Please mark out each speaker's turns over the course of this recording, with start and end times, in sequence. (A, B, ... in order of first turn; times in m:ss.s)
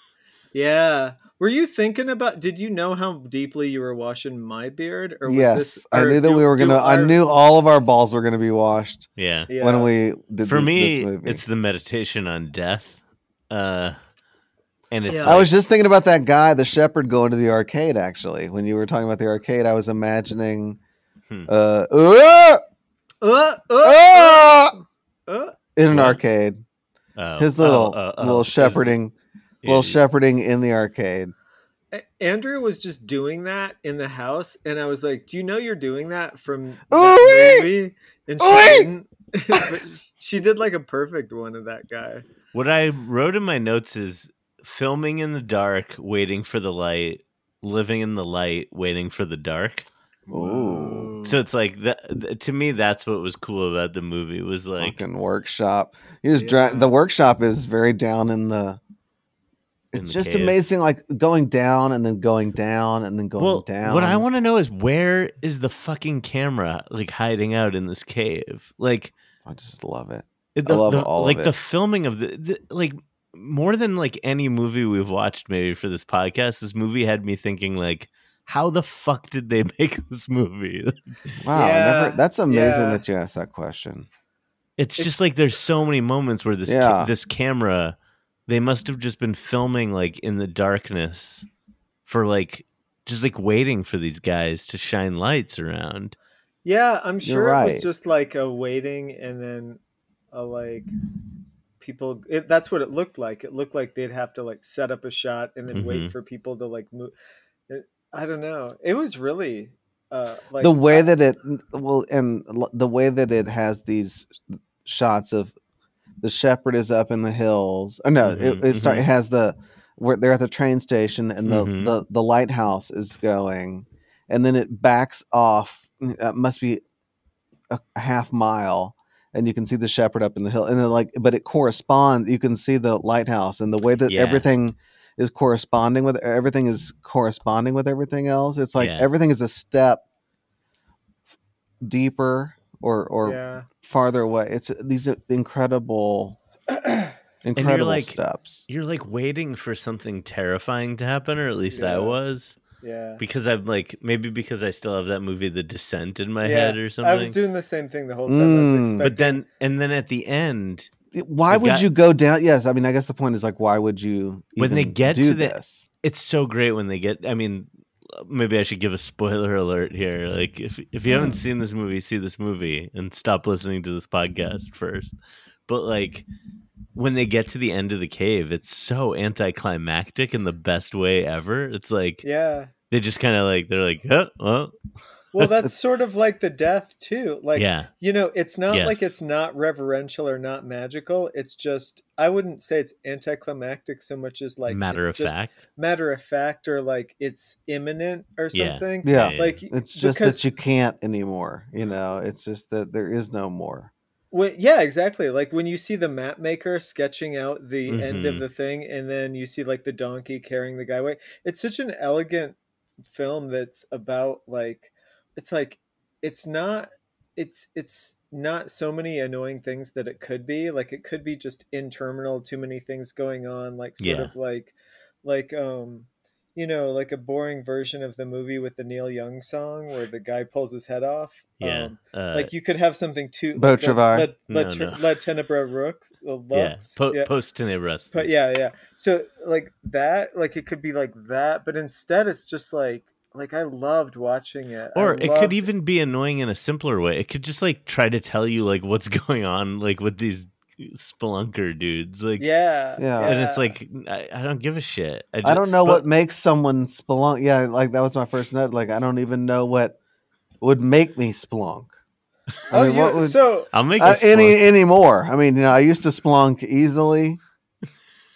0:00.5-0:07.2 A
0:05.2-0:11.4 B
0:09.2-0:09.5 C
0:09.5-0:09.9 A
0:10.4-0:14.0 C
0:14.9-0:15.5 C
0:15.1-0:15.4 A
0:15.2-0:20.8 B
0:21.5-0:22.6 B
0:23.2-0:25.6 A
0:23.8-0:24.8 B
0:25.8-0:26.6 B
0:25.9-0:26.2 C
0:27.2-0:29.0 C
0:27.4-0:31.3 B
0:29.6-0:30.0 C
0:31.9-0:42.2 A
0:36.9-0:37.7 B
0:38.4-0:38.9 B
0:42.5-0:49.8 C
0:50.3-0:51.4 A
0:50.3-0:51.1 B
0:51.2-0:55.0 C
0:54.8-0:58.8 B
0:56.4-0:56.9 A
0:59.9-1:04.2 B
0:59.9-1:00.6 C
1:03.4-1:09.1 C
1:09.4-1:11.5 B
1:10.6-1:21.0 C
1:21.4-1:24.1 B
1:21.5-1:23.0 A
1:24.8-1:28.0 C
1:26.6-1:27.1 B
1:28.5-1:31.4 C
1:32.0-1:36.1 C
1:36.6-1:39.8 A
1:37.2-1:37.9 B
1:40.3-1:40.9 A
1:41.8-1:47.1 A
1:45.7-1:46.1 C
1:47.7-1:51.1 A
1:50.6-1:55.5 B
1:56.2-2:06.8 B
1:58.2-1:59.0 C
2:01.4-2:01.9 C
2:07.7-2:20.0 B
2:14.1-2:14.4 C
2:18.8-2:19.1 C
2:21.8-2:26.4 B
2:23.2-2:23.7 A
2:26.7-2:27.1 A
2:27.4-2:28.6 B
2:27.6-2:32.6 C
2:31.7-2:32.2 A
2:32.8-2:33.2 A
2:33.2-2:37.4 C
2:36.4-2:39.4 A
2:38.3-2:39.1 B
2:39.0-2:40.9 C
2:41.1-2:45.8 B
2:41.5-2:41.9 C
2:44.6-2:55.2 C
2:51.1-2:51.4 B
2:55.7-2:56.2 C
2:56.9-3:02.2 C
3:02.2-3:02.7 A
3:02.9-3:04.7 C
3:05.3-3:20.4 A
3:07.5-3:07.9 C
3:08.7-3:09.1 C
3:14.7-3:15.6 C
3:18.5-3:19.6 C
3:19.0-3:23.9 B
3:24.3-3:57.3 A
3:27.9-3:28.4 C
3:44.0-3:44.3 C
3:51.6-3:52.5 C
3:53.6-3:54.3 B
3:54.5-3:55.0 C
3:56.5-3:58.3 C
3:58.1-4:05.6 A
4:04.9-4:12.5 C
4:12.4-4:13.7 A
4:13.0-4:13.4 B
4:13.2-4:16.0 C
4:15.4-4:20.0 B
4:20.6-4:21.9 B
4:22.7-4:23.4 B
4:22.7-4:23.8 A
4:23.7-4:24.6 C
4:24.0-4:27.4 B